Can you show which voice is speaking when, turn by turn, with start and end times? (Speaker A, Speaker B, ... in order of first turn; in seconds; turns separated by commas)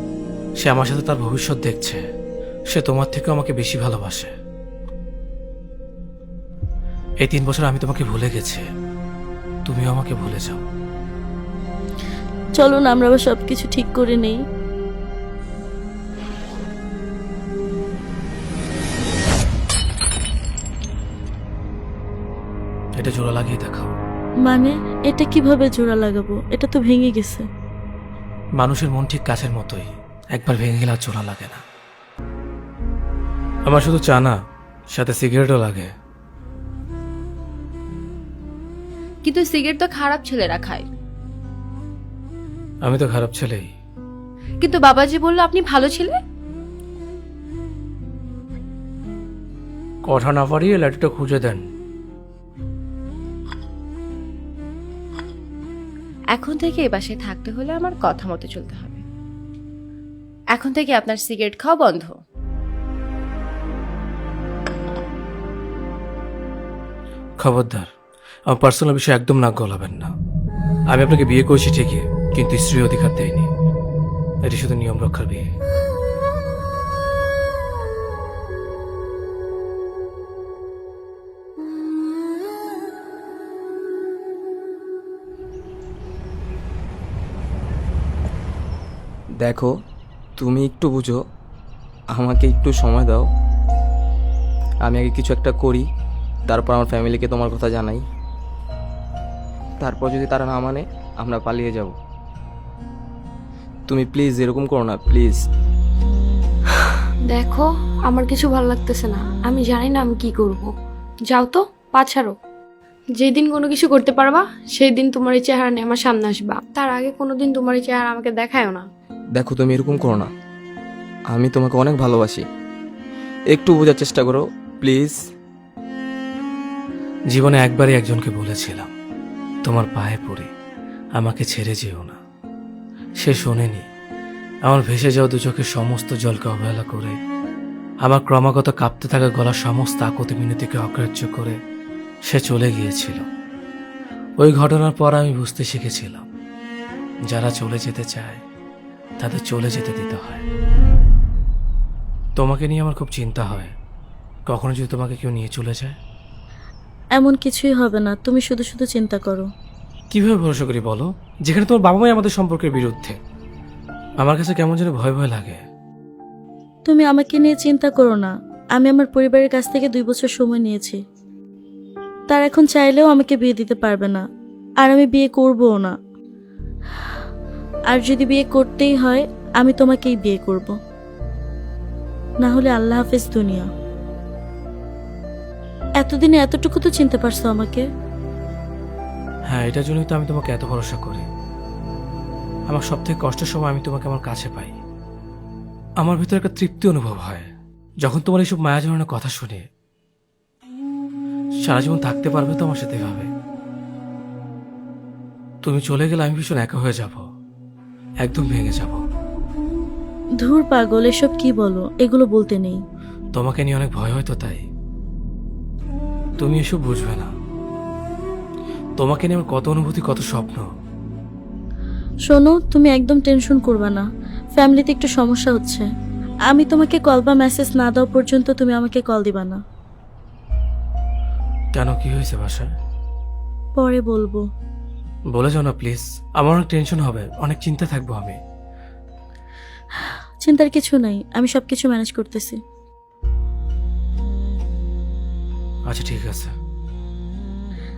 Speaker A: 0.6-2.0, Speaker A: 2.7-4.3, Speaker A: 7.2-8.7, Speaker A: 9.7-10.6, Speaker B: 12.6-14.4, Speaker A: 22.9-23.9, Speaker B: 24.5-27.4, Speaker A: 28.6-31.6, Speaker A: 33.6-34.4, Speaker A: 34.9-35.9, Speaker C: 39.2-40.9, Speaker A: 42.8-43.7, Speaker C: 44.6-46.2, Speaker A: 50.1-51.6, Speaker C: 56.3-59.0, Speaker C: 60.5-62.2, Speaker A: 67.4-67.9, Speaker A: 68.5-70.1, Speaker A: 70.9-73.5, Speaker A: 74.4-75.5, Speaker D: 89.4-89.7, Speaker D: 90.4-91.2, Speaker D: 92.1-93.2, Speaker D: 94.8-95.9, Speaker D: 96.5-98.0, Speaker D: 99.8-102.0, Speaker D: 103.9-105.4, Speaker E: 107.3-110.7, Speaker E: 111.3-112.3, Speaker E: 113.2-118.8, Speaker D: 119.3-120.3, Speaker D: 121.3-122.4, Speaker D: 123.5-125.2, Speaker A: 127.3-128.9, Speaker A: 129.6-130.5, Speaker A: 131.2-132.2, Speaker A: 133.2-133.8, Speaker A: 134.6-137.2, Speaker A: 138.0-141.6, Speaker A: 142.3-143.2, Speaker A: 144.4-146.3, Speaker A: 147.3-148.4, Speaker A: 149.2-150.4, Speaker A: 152.4-153.7, Speaker A: 154.5-156.0, Speaker B: 157.2-159.5, Speaker A: 160.1-163.2, Speaker A: 164.2-165.6, Speaker B: 166.9-171.0, Speaker B: 172.3-174.2, Speaker B: 174.8-175.9, Speaker B: 177.9-180.8, Speaker B: 182.4-183.7, Speaker B: 186.0-187.8, Speaker A: 189.5-191.2, Speaker A: 192.7-194.8, Speaker A: 196.0-197.5, Speaker A: 198.0-199.7, Speaker A: 201.6-203.3, Speaker A: 205.6-207.2, Speaker A: 208.2-209.0, Speaker B: 210.4-212.8, Speaker A: 213.3-214.6, Speaker A: 216.4-217.3, Speaker A: 219.0-220.6, Speaker B: 222.3-224.0, Speaker B: 224.6-225.9, Speaker B: 226.5-229.6, Speaker A: 231.7-232.7, Speaker B: 233.8-234.4, Speaker A: 235.3-238.4, Speaker B: 240.4-242.6, Speaker A: 245.9-246.5